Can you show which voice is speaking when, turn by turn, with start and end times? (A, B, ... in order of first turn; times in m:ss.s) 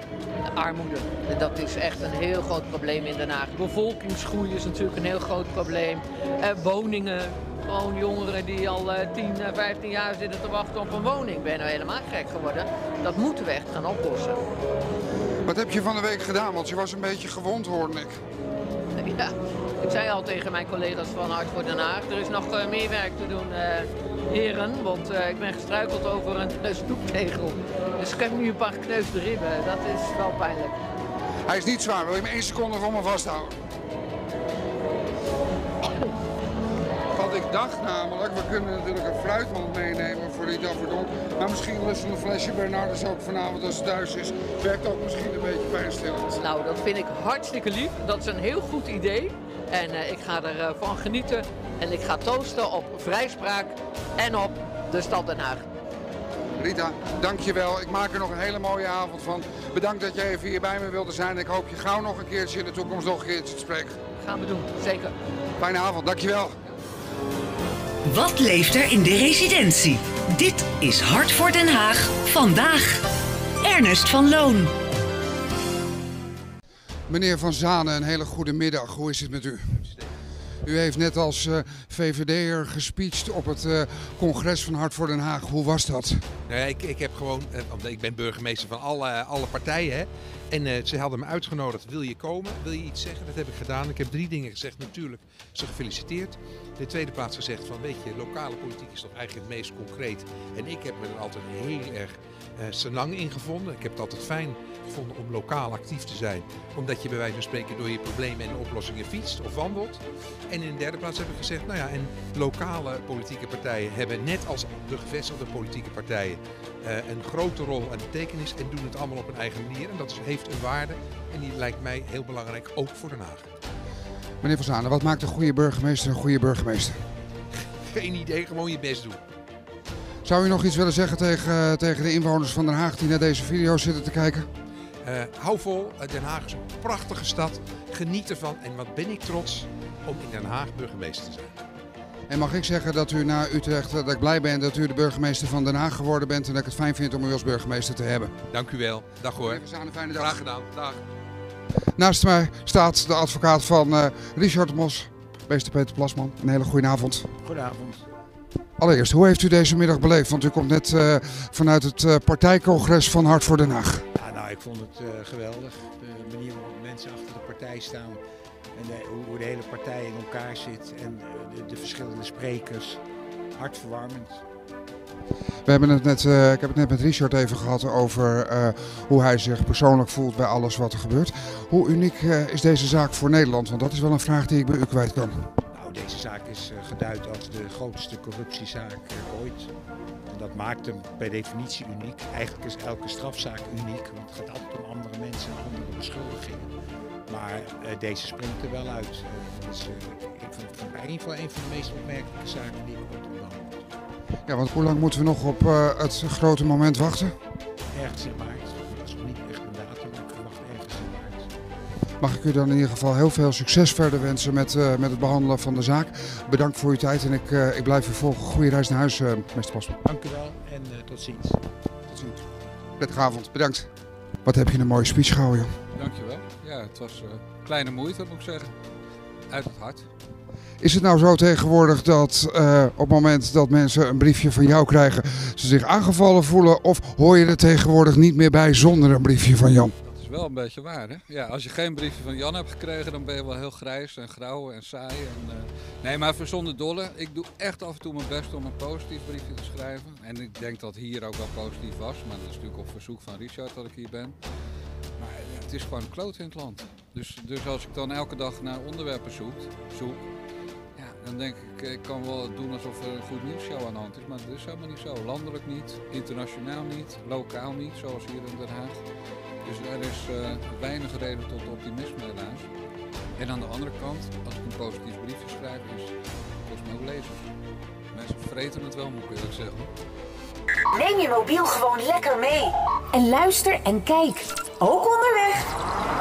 0:00.6-0:14.4 A
0:15.5-0:18.2 B
0:19.0-0:30.8 A
0:31.5-0:33.5 B
0:37.2-0:46.4 B
0:46.4-0:55.6 A
0:56.6-1:04.0 B
1:04.2-1:05.1 A
1:05.6-1:06.5 B
1:08.0-1:13.0 C
1:13.6-1:14.7 C
1:17.1-1:19.8 B
1:20.6-1:26.2 B
1:26.5-2:03.5 D
2:04.4-2:07.0 B
2:07.9-2:09.2 D
2:10.2-2:14.5 B
2:15.0-2:21.5 D
2:22.3-2:28.3 B
2:28.5-2:31.0 D
2:29.4-2:30.4 B
2:32.0-2:37.3 B
2:37.4-2:38.0 E
2:38.8-2:44.0 B
2:44.2-2:48.2 E
2:48.7-2:53.0 E
2:53.5-2:54.4 E
2:55.7-3:05.4 B
3:05.7-3:09.7 E
3:10.3-3:16.7 E
3:17.3-3:23.7 E
3:24.5-3:27.3 B
3:27.9-3:31.5 E
3:32.2-3:40.0 B
3:40.1-3:41.6 E
3:42.1-3:42.4 B
3:43.0-3:43.9 B
3:44.4-3:45.7 B
3:45.9-3:48.8 F
3:49.5-3:50.1 F
3:50.8-3:59.9 B
4:00.0-4:14.4 F
4:15.2-4:20.2 F
4:21.0-4:29.0 F
4:29.6-4:32.7 F
4:33.4-4:37.5 F
4:38.1-4:39.9 F
4:40.9-4:45.6 C